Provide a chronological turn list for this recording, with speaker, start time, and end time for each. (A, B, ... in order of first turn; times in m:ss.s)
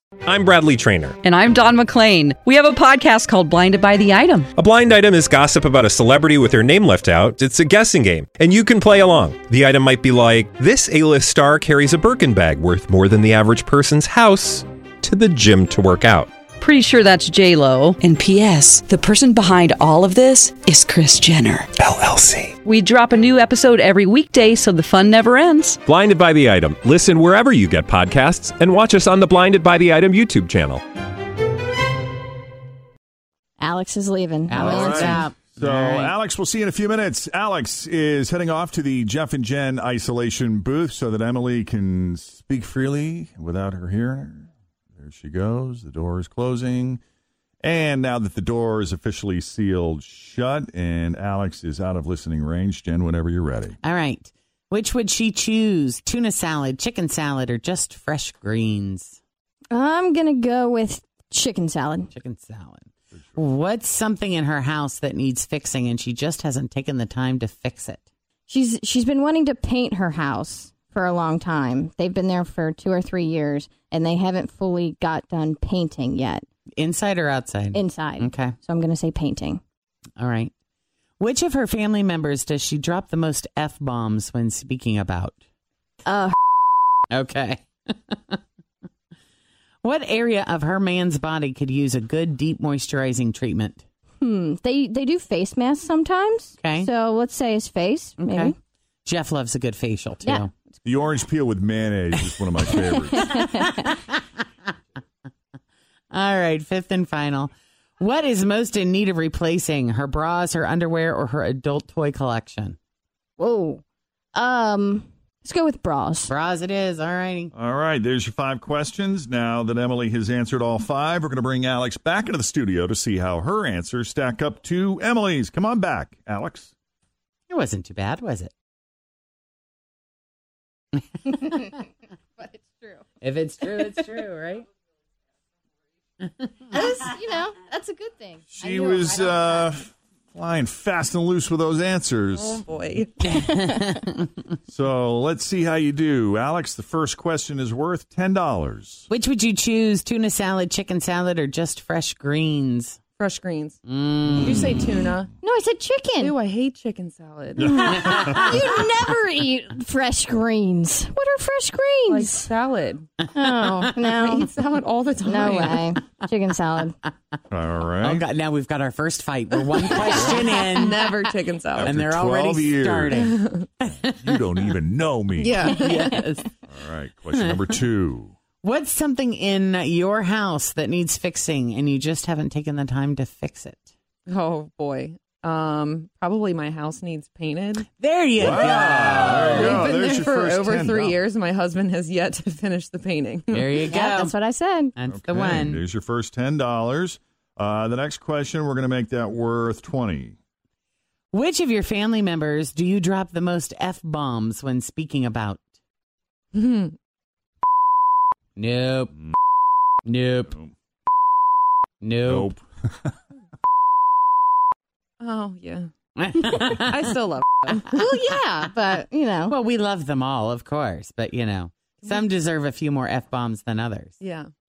0:00.2-0:01.2 A
0:01.2-0:04.5 B
0:04.5-0:16.3 A
0:16.6-0:21.7 B
0:22.0-0:22.5 A
0:22.5-0:25.8 B
0:25.8-0:30.8 A
0:33.6-0:35.2 C
0:34.5-0:36.2 D
0:34.5-0:47.0 E
0:47.6-0:53.8 E
0:53.8-0:59.2 D
0:59.7-1:02.1 C
1:02.1-1:08.0 D
1:08.5-1:16.4 C
1:16.8-1:18.6 D
1:17.7-1:19.6 C
1:20.2-1:20.5 D
1:21.2-1:25.4 D
1:26.1-1:26.4 C
1:27.1-1:28.4 D
1:29.8-1:33.8 D
1:34.2-1:38.6 C
1:36.6-1:36.9 D
1:38.2-1:40.5 D
1:40.2-1:40.5 C
1:40.8-1:43.3 E
1:42.8-1:43.9 D
1:42.9-1:43.8 C
1:46.1-1:52.8 D
1:53.4-1:53.8 C
1:54.3-1:56.3 C
1:56.3-1:57.5 D
1:57.6-2:06.7 E
2:07.5-2:08.5 D
2:11.3-2:11.7 C
2:12.4-2:13.0 C
2:13.2-2:14.7 D
2:16.7-2:19.2 C
2:18.5-2:22.6 E
2:22.4-2:23.1 F
2:23.2-2:24.2 D
2:24.7-2:29.1 E
2:29.1-2:33.0 D
2:33.2-2:33.8 F
2:33.9-2:34.8 D
2:34.4-2:35.3 F
2:35.4-2:36.3 C
2:36.2-2:37.8 F
2:37.6-2:38.6 E
2:37.7-2:42.5 C
2:38.1-2:38.6 D
2:42.1-2:43.1 F
2:43.4-2:44.5 C
2:44.0-2:45.9 F
2:45.2-2:47.0 C
2:47.5-2:48.2 E
2:48.0-2:51.2 D
2:50.0-2:50.6 E
2:50.8-2:51.9 F
2:51.8-2:53.2 E
2:51.8-2:54.5 D
2:53.2-2:53.6 F
2:54.1-2:55.7 E
2:55.4-2:56.2 F
2:55.6-2:56.5 D
2:56.7-2:58.3 E
2:57.3-2:57.8 D
2:58.6-3:03.9 D
3:04.3-3:07.9 F
3:08.0-3:10.2 D
3:08.4-3:11.2 E
3:09.6-3:13.8 F
3:13.5-3:14.4 D
3:13.9-3:14.9 C
3:15.0-3:15.8 D
3:15.1-3:20.4 E
3:21.3-3:25.6 D
3:26.6-3:27.0 F
3:28.6-3:29.1 D
3:30.1-3:30.5 D
3:32.0-3:32.5 D
3:32.2-3:33.1 E
3:35.2-3:35.9 F
3:36.2-3:37.0 D
3:36.9-3:37.9 F
3:38.0-3:39.5 C
3:39.5-3:44.2 D
3:44.2-3:44.5 F